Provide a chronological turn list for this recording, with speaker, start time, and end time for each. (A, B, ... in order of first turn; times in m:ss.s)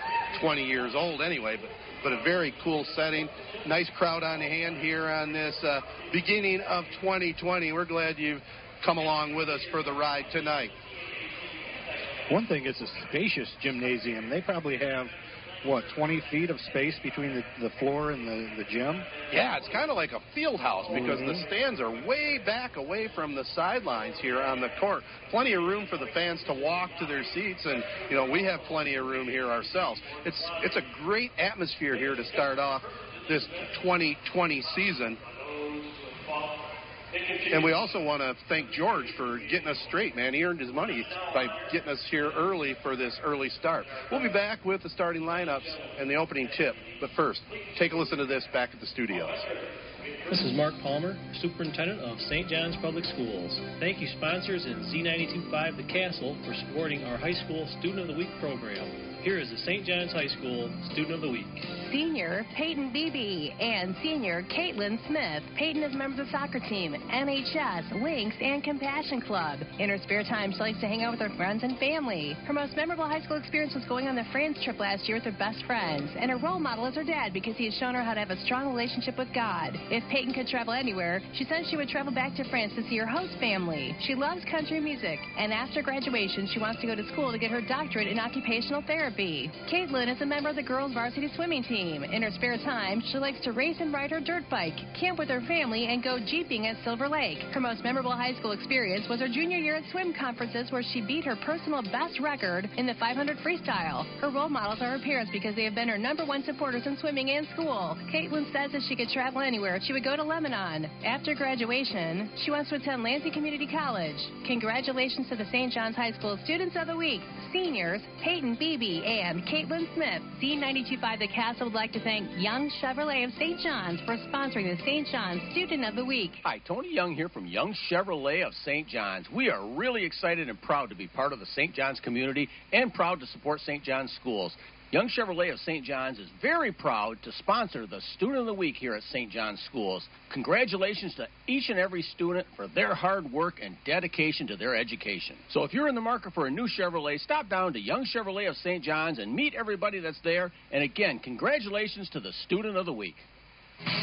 0:00.3-0:10.7 A
0:12.3-0:19.1 B
0:19.3-0:35.2 A
0:20.9-0:21.4 B
0:37.5-0:49.5 A
0:50.3-1:01.6 C
1:01.8-2:06.4 D
2:06.4-2:33.2 E